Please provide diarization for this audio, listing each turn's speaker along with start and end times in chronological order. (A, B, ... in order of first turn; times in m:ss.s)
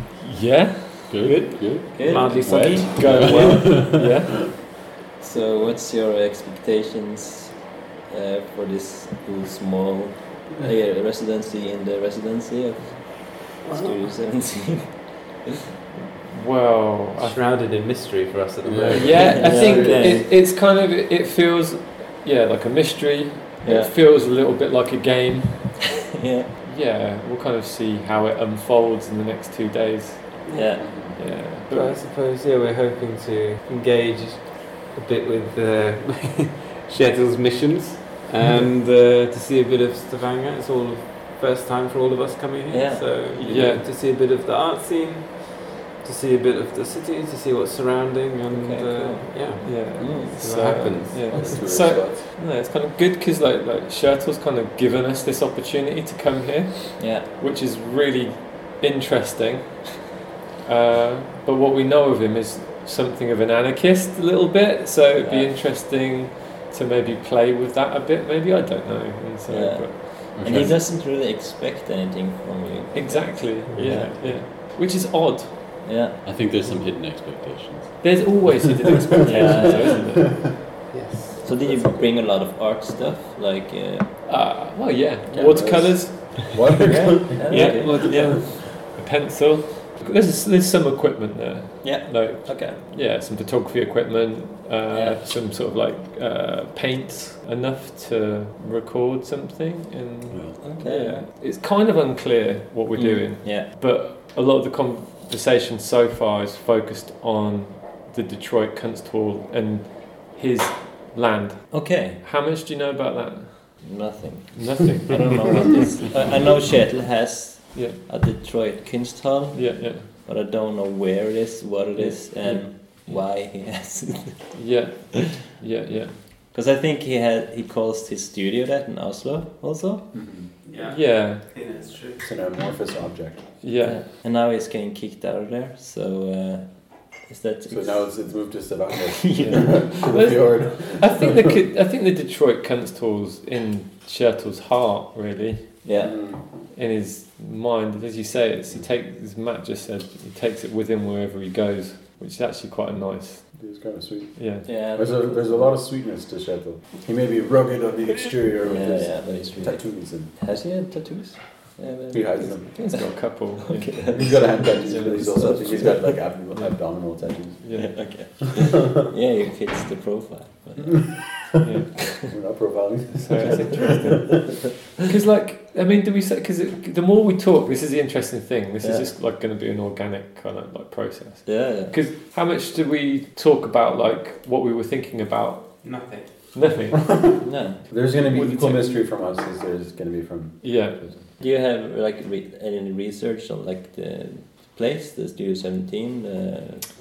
0:00.2-0:04.5 A
0:01.1-0:04.1 B
0:01.9-0:03.7 C
0:02.0-0:03.9 D
0:05.2-0:15.2 C
0:13.7-0:13.9 D
0:15.9-0:17.4 A
0:17.2-0:20.2 D
0:18.6-0:20.3 B
0:18.9-0:25.9 A
0:19.2-0:20.2 C
0:23.6-0:23.9 C
0:26.2-0:26.5 C
0:26.6-0:30.4 A
0:30.4-0:30.8 D
0:30.5-0:31.9 C
0:30.7-0:31.3 B
0:31.2-0:31.9 A
0:31.7-0:51.6 D
0:38.4-0:38.7 A
0:42.7-0:43.7 C
0:43.4-0:43.9 A
0:48.5-0:50.4 C
0:49.6-1:00.1 A
0:51.2-0:52.3 B
0:57.0-0:57.3 C
1:00.6-1:10.7 A
1:05.2-1:05.5 C
1:09.5-1:14.4 C
1:10.3-1:10.8 B
1:12.9-1:16.0 A
1:13.7-1:14.3 D
1:15.8-1:16.4 C
1:16.2-1:20.5 B
1:18.0-1:20.4 A
1:19.2-1:20.1 C
1:20.9-1:21.6 D
1:21.4-1:24.2 C
1:21.5-1:22.0 B
1:24.2-1:54.0 A
1:25.3-1:26.0 C
1:25.3-1:28.4 B
1:27.3-1:28.4 C
1:31.8-1:32.8 C
1:34.9-1:35.2 C
1:40.3-1:40.8 B
1:40.6-1:41.2 C
1:43.0-1:43.7 C
1:51.7-1:52.2 C
1:53.8-2:04.5 C
1:54.6-1:56.6 A
1:57.7-1:58.0 A
1:59.5-2:00.1 A
2:02.0-2:03.3 A
2:04.5-2:06.2 A
2:06.5-2:10.4 C
2:10.1-2:10.6 B
2:10.6-2:12.2 D
2:10.8-2:11.5 A
2:12.2-2:13.6 B
2:13.6-2:14.0 A
2:13.8-2:18.8 C
2:17.7-2:21.6 B
2:19.3-2:19.9 C
2:19.4-2:25.9 A
2:25.8-2:26.3 C
2:25.9-2:26.7 B
2:26.7-2:34.8 A
2:28.7-2:28.9 B
2:33.5-2:40.6 B
2:34.6-2:35.8 C
2:38.6-2:46.3 C
2:42.1-2:42.9 B
2:42.4-2:45.9 A
2:44.1-2:48.8 B
2:46.5-2:48.0 A
2:47.7-2:51.6 C
2:50.8-2:54.4 B
2:51.6-2:52.1 A
2:53.1-3:07.2 A
2:58.8-2:59.1 C
3:01.4-3:02.0 C
3:05.8-3:06.6 D
3:06.9-3:07.4 B
3:07.4-3:08.9 C
3:07.9-3:11.3 B
3:10.6-3:11.2 A
3:11.4-3:16.9 C